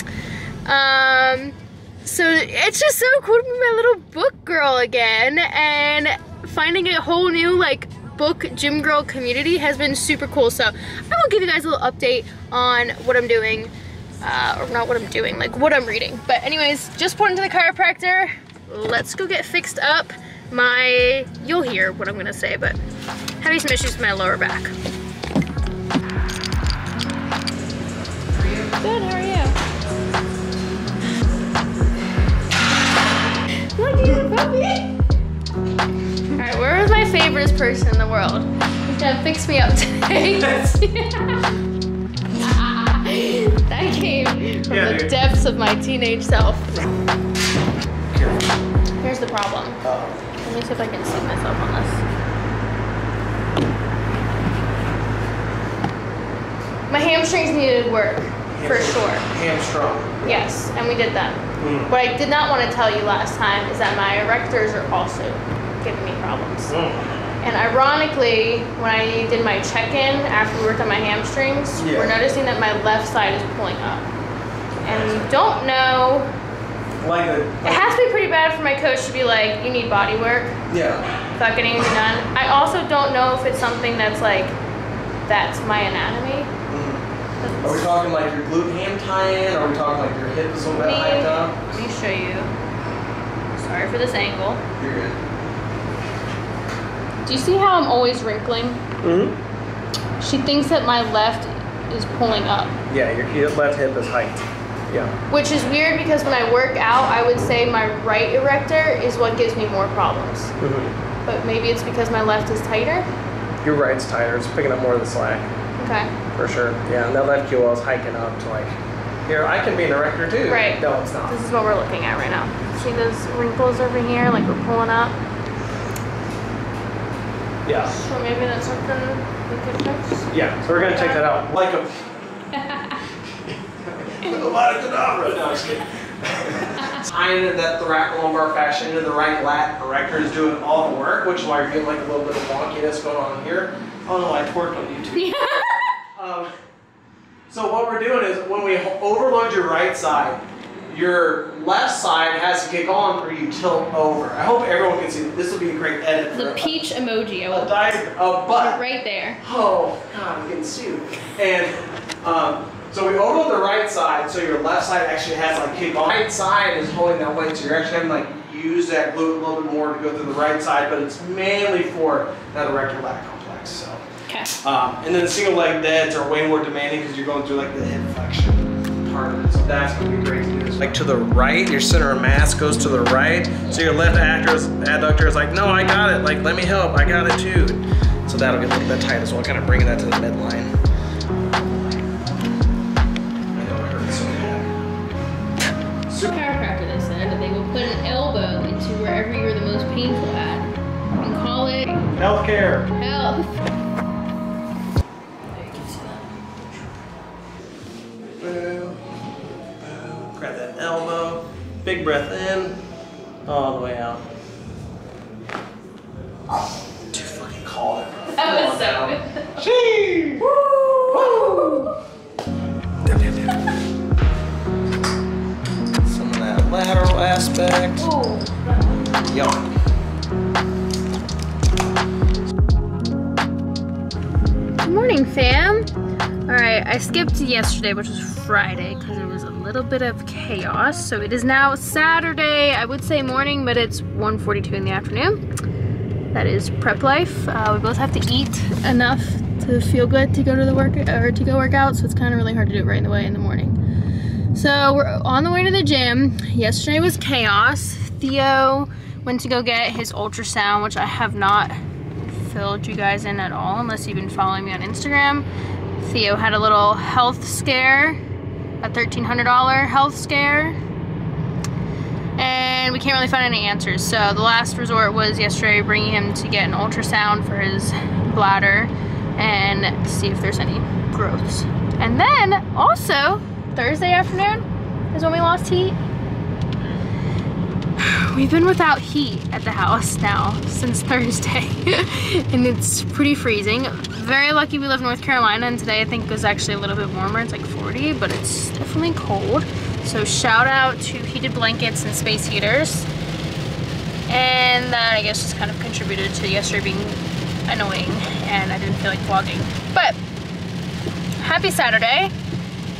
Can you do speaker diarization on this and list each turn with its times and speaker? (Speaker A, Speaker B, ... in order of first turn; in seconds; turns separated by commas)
Speaker A: 0.7-22.8, Speaker A: 23.4-24.7, Speaker A: 28.7-29.6, Speaker A: 33.8-34.9, Speaker A: 36.3-41.4, Speaker A: 42.4-46.8, Speaker B: 44.7-45.1, Speaker B: 48.1-48.5, Speaker A: 49.0-49.8, Speaker B: 49.8-50.2, Speaker A: 50.4-52.0, Speaker A: 56.9-59.2, Speaker B: 58.5-60.5, Speaker A: 60.2-66.8, Speaker B: 61.6-61.9, Speaker B: 66.7-67.1, Speaker A: 67.4-74.1, Speaker B: 71.8-72.2, Speaker B: 74.8-75.3, Speaker A: 74.8-76.3, Speaker B: 77.0-77.9, Speaker A: 77.7-80.6, Speaker B: 80.7-81.1, Speaker A: 81.4-84.6, Speaker A: 85.3-86.5, Speaker B: 86.7-87.0, Speaker A: 87.4-87.9, Speaker B: 87.6-91.6, Speaker A: 90.7-92.5, Speaker A: 93.5-94.6, Speaker B: 94.8-95.2, Speaker A: 97.2-98.8, Speaker B: 99.0-99.4, Speaker A: 100.2-102.8, Speaker B: 102.9-105.1, Speaker A: 105.3-110.5, Speaker B: 110.6-111.0, Speaker A: 111.2-113.1, Speaker B: 113.6-115.5, Speaker A: 115.8-116.2, Speaker B: 116.3-121.4, Speaker A: 120.5-125.2, Speaker B: 127.7-127.9, Speaker A: 127.8-131.3, Speaker B: 130.3-132.1, Speaker A: 132.6-133.0, Speaker B: 133.8-145.3, Speaker A: 145.1-145.9, Speaker B: 146.2-146.5, Speaker B: 147.5-156.8, Speaker A: 156.3-158.0, Speaker B: 157.5-158.8, Speaker A: 158.5-159.4, Speaker B: 159.4-174.0, Speaker A: 174.3-174.5, Speaker B: 174.6-190.8, Speaker B: 193.5-194.8, Speaker A: 196.1-202.1, Speaker B: 202.2-202.9, Speaker A: 203.0-203.5, Speaker A: 205.5-206.3, Speaker B: 208.4-209.0, Speaker B: 209.8-212.8, Speaker B: 213.4-214.2, Speaker B: 217.1-220.5, Speaker A: 218.3-219.6, Speaker A: 220.4-221.9, Speaker B: 221.1-221.8, Speaker B: 223.0-223.6, Speaker B: 226.0-228.1, Speaker A: 228.0-228.7, Speaker B: 229.2-229.7, Speaker A: 234.8-235.9, Speaker A: 236.5-245.4, Speaker A: 246.3-253.8, Speaker A: 254.5-265.5, Speaker A: 266.0-268.2, Speaker A: 268.8-270.8, Speaker A: 272.4-286.0, Speaker A: 288.0-303.1, Speaker A: 304.3-310.2, Speaker A: 311.4-312.3